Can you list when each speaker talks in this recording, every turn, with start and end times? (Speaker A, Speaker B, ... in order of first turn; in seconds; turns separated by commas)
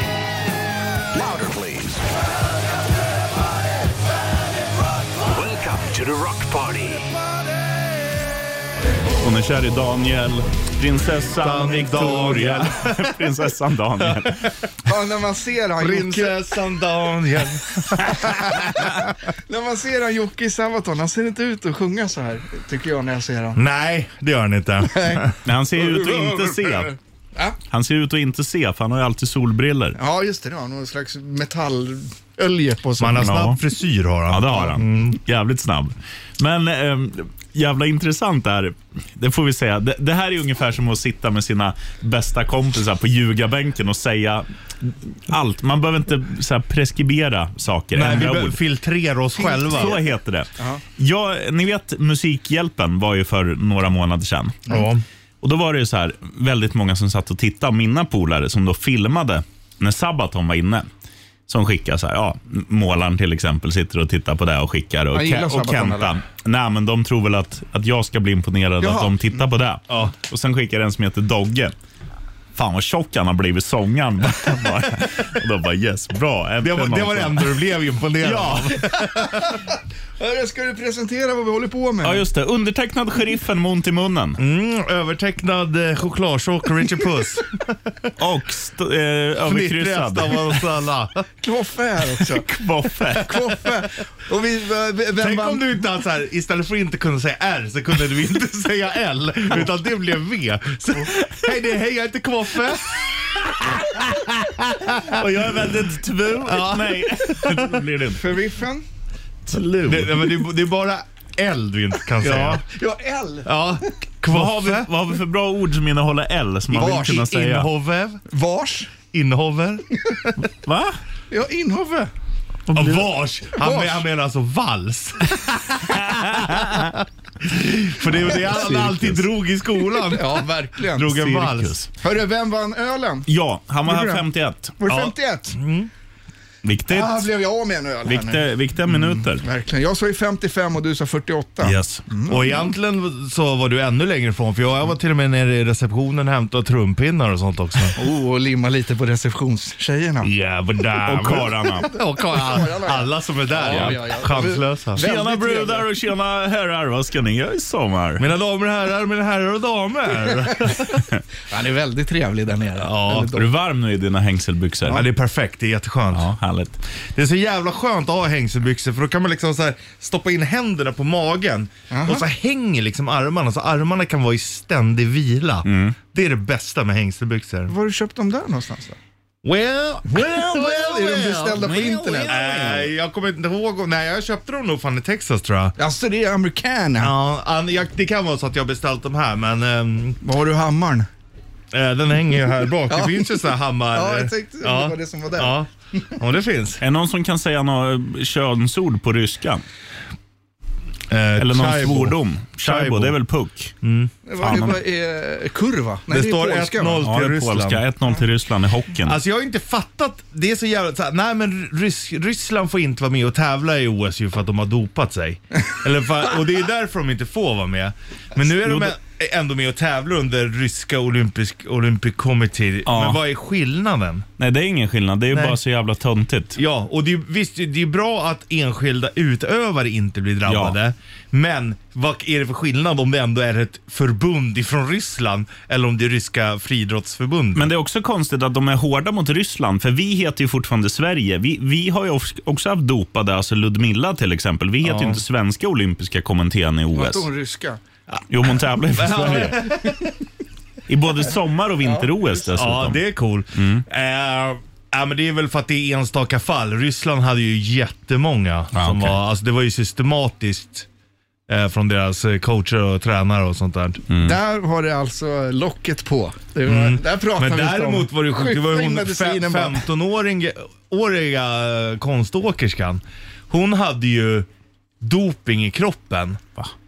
Speaker A: 1.1-2.1, Speaker A: 2.9-7.2, Speaker B: 9.2-14.5, Speaker C: 11.4-13.2, Speaker D: 12.0-12.7, Speaker C: 14.0-14.3, Speaker D: 14.9-16.4, Speaker C: 15.8-19.0, Speaker D: 18.0-19.0, Speaker D: 19.5-23.6, Speaker C: 23.6-25.4, Speaker D: 24.9-25.2, Speaker B: 25.4-26.9, Speaker D: 25.8-27.6, Speaker B: 27.7-30.0, Speaker D: 30.0-33.3, Speaker C: 33.0-35.2, Speaker B: 33.2-33.6, Speaker B: 34.3-48.6, Speaker C: 48.0-50.0, Speaker D: 49.4-49.9, Speaker B: 49.7-54.6, Speaker C: 54.7-55.0, Speaker B: 55.4-60.9, Speaker B: 61.5-71.7, Speaker D: 65.1-66.1, Speaker D: 68.8-69.4, Speaker C: 69.9-70.2, Speaker B: 72.5-77.6, Speaker C: 76.6-79.6, Speaker B: 78.2-78.8, Speaker D: 79.2-79.6, Speaker D: 80.2-82.2, Speaker B: 82.0-84.4, Speaker C: 84.4-88.1, Speaker B: 88.2-90.6, Speaker C: 89.5-91.2, Speaker D: 91.4-92.5, Speaker B: 92.2-93.4, Speaker D: 93.2-95.7, Speaker C: 95.2-103.0, Speaker C: 104.4-105.2, Speaker B: 105.0-108.2, Speaker C: 106.4-107.8, Speaker D: 108.1-108.8, Speaker B: 109.5-110.4, Speaker C: 109.8-112.6, Speaker B: 112.2-112.6, Speaker D: 112.7-113.5, Speaker C: 113.5-114.9, Speaker B: 114.3-117.7, Speaker D: 116.7-117.5, Speaker C: 116.8-118.2, Speaker D: 118.3-118.9, Speaker C: 119.1-120.3, Speaker B: 120.6-121.0, Speaker D: 121.3-122.1, Speaker B: 122.7-123.1, Speaker C: 122.7-131.8, Speaker D: 123.5-124.0, Speaker B: 126.1-126.8, Speaker B: 128.4-129.2, Speaker D: 130.1-131.2, Speaker B: 131.1-131.9, Speaker D: 132.0-133.3, Speaker B: 133.3-134.8, Speaker D: 133.9-134.2, Speaker D: 134.8-135.6, Speaker C: 134.9-135.9, Speaker B: 136.6-137.2, Speaker D: 136.9-142.5, Speaker B: 138.1-139.4, Speaker B: 141.7-142.0, Speaker C: 141.8-147.9, Speaker D: 147.9-150.3, Speaker C: 150.2-155.1, Speaker B: 151.1-151.9, Speaker D: 151.9-155.8, Speaker B: 153.7-154.0, Speaker B: 155.0-158.2, Speaker C: 158.2-161.0, Speaker D: 160.5-160.7, Speaker D: 161.5-163.5, Speaker C: 162.8-163.3, Speaker B: 163.3-165.1, Speaker C: 164.9-166.3, Speaker B: 166.1-166.8, Speaker C: 167.1-177.7, Speaker D: 171.9-172.2, Speaker B: 175.7-176.0, Speaker D: 177.7-179.0, Speaker C: 179.4-185.8, Speaker D: 180.1-182.3, Speaker B: 181.6-182.9, Speaker D: 185.8-187.1, Speaker C: 187.0-190.2, Speaker D: 190.2-191.1, Speaker C: 191.7-196.8, Speaker D: 192.9-195.6, Speaker B: 196.8-199.6, Speaker C: 201.1-203.2, Speaker B: 201.4-203.7, Speaker C: 203.8-204.6, Speaker D: 204.3-207.1, Speaker B: 204.4-204.8, Speaker C: 206.1-207.8, Speaker B: 207.0-209.2, Speaker C: 209.1-224.3, Speaker B: 218.6-218.9, Speaker B: 222.8-223.2, Speaker B: 224.4-226.6, Speaker C: 225.3-225.6, Speaker C: 226.6-237.7, Speaker B: 230.5-230.8, Speaker B: 237.6-247.3, Speaker C: 244.8-245.2, Speaker D: 246.9-247.8, Speaker B: 248.3-249.7, Speaker C: 248.9-250.1, Speaker B: 250.9-253.0, Speaker C: 252.4-260.9, Speaker B: 253.6-253.8, Speaker B: 258.7-259.2, Speaker C: 261.5-264.0, Speaker B: 264.1-264.4, Speaker D: 264.2-269.8, Speaker C: 266.7-274.5, Speaker C: 275.0-276.4